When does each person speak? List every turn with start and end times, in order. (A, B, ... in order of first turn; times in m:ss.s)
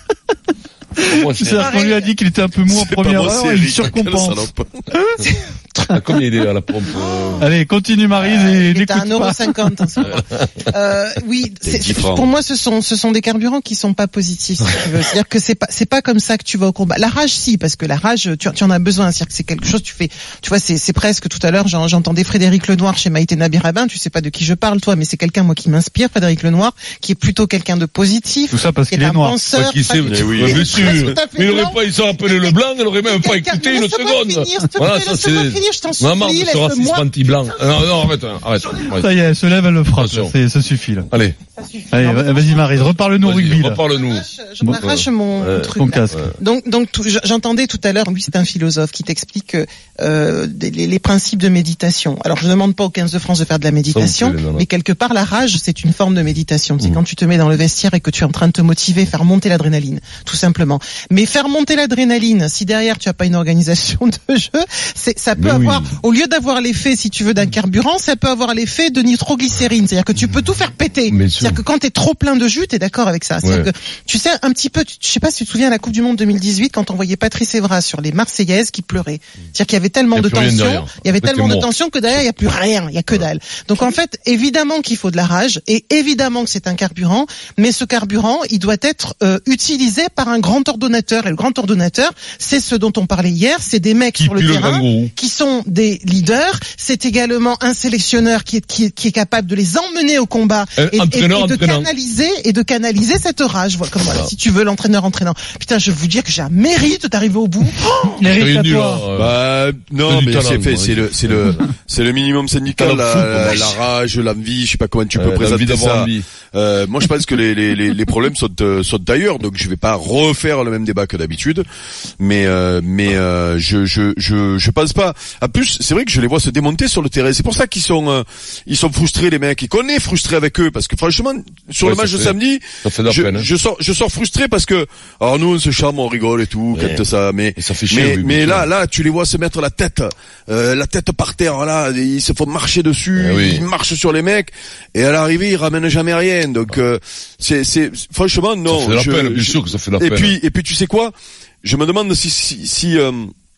0:01.0-0:01.7 A
0:01.0-0:05.1 B
0:01.5-0:02.1 C
0:02.7-0:04.8 D
0:05.9-0:07.5 A
0:06.9-0:07.5 C
0:07.4-0:09.4 B
0:08.2-0:37.6 C
0:11.6-0:12.3 D
0:28.5-0:29.4 B
0:29.5-0:39.1 A
0:30.0-0:31.1 D
0:38.8-0:41.1 B
0:40.0-0:40.3 A
0:41.1-0:41.4 A
0:41.6-0:42.7 C
0:41.9-0:43.8 B
0:43.2-0:44.2 A
0:43.9-1:47.9 C
0:44.8-0:46.2 A
0:45.8-0:46.3 B
0:53.9-0:54.6 A
1:05.4-1:05.8 A
1:11.1-1:11.6 A
1:13.4-1:13.7 A
1:20.1-1:21.7 A
1:34.2-1:35.1 A
1:40.8-1:41.9 A
1:44.0-1:44.3 A
1:48.0-1:49.0 B
1:48.2-1:49.4 A
1:49.1-2:01.6 D
1:50.0-1:51.6 A
1:52.7-1:53.8 A
1:55.1-1:56.2 A
2:02.2-2:33.3 D
2:11.8-2:13.5 A
2:16.7-2:17.0 A
2:17.6-2:18.7 A
2:23.2-2:23.6 A
2:28.7-2:30.4 A